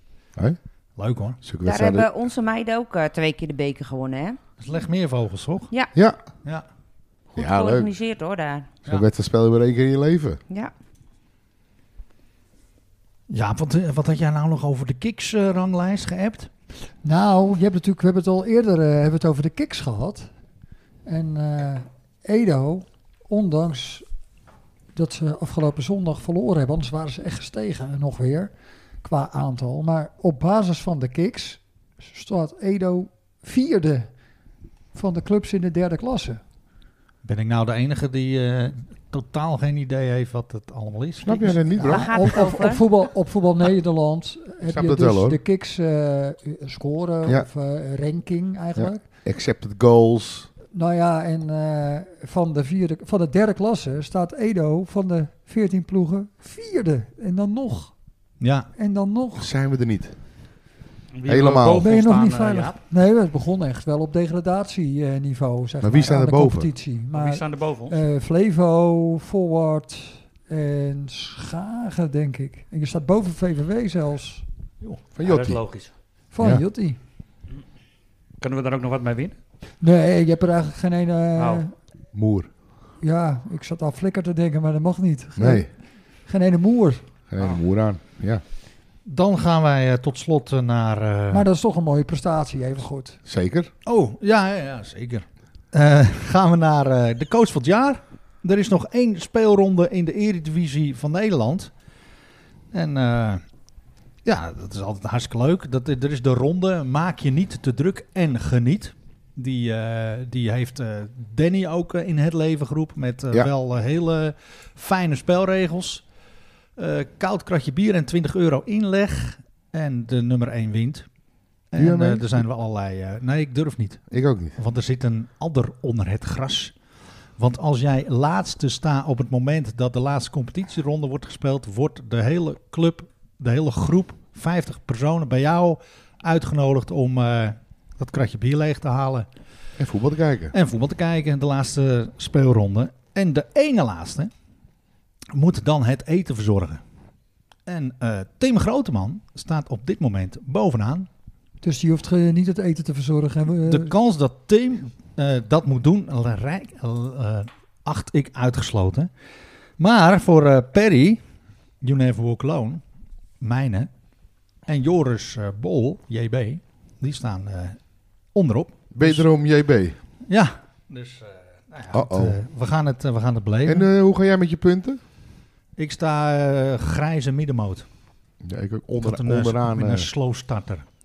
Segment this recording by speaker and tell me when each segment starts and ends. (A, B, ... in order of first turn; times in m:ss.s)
0:01.0-0:01.4 A
0:01.4-0:02.1 B
0:01.6-0:04.4 C
0:04.6-0:05.7 A
0:07.4-0:07.9 B
0:07.4-0:08.7 C
0:08.9-0:10.4 B
0:13.3-0:16.5 A
0:17.0-0:20.3 D
0:21.1-0:24.1 D
0:25.0-0:28.5 D
0:29.0-0:34.1 D
0:34.9-0:36.4 D
0:37.2-0:41.6 A
0:41.2-0:42.4 B
0:41.8-0:49.0 D
0:41.8-0:42.8 C
0:44.7-0:45.4 B
0:48.8-0:50.5 B
0:50.7-0:57.9 D
0:58.4-0:58.7 A
0:58.8-0:59.5 D
0:59.4-1:00.1 B
1:01.1-1:02.8 E
1:01.3-1:01.9 B
1:01.8-1:14.4 D
1:05.8-1:06.7 B
1:07.1-1:08.0 E
1:15.2-1:15.6 B
1:15.2-1:15.9 E
1:16.3-1:17.0 D
1:18.4-1:19.4 E
1:19.8-1:21.7 D
1:21.4-1:21.6 E
1:22.1-1:22.5 B
1:23.0-1:25.7 D
1:25.4-1:25.7 B
1:26.3-1:27.0 D
1:27.3-1:28.4 B
1:29.1-1:31.5 A
1:31.3-1:33.2 D
1:33.3-1:33.7 B
1:33.9-1:41.7 A
1:42.7-1:43.4 A
1:44.2-1:56.0 A
1:56.8-2:01.1 A
2:01.7-2:06.7 A
2:01.8-2:02.4 B
2:04.1-2:04.6 B
2:07.4-2:19.3 A
2:19.8-2:20.5 B
2:20.5-2:24.3 A
2:25.3-2:26.8 A
2:27.7-2:31.1 A
2:31.6-2:33.9 D
2:33.7-2:39.1 A
2:39.8-2:41.2 A
2:41.8-2:42.8 A
2:43.4-2:43.9 A
2:44.7-2:47.8 A
2:48.3-2:49.3 A
2:48.9-2:50.0 B
2:50.3-2:53.9 A
2:51.9-2:52.4 B
2:53.7-2:55.0 B
2:55.8-2:57.8 A
2:58.4-3:00.1 B
2:59.0-3:00.8 A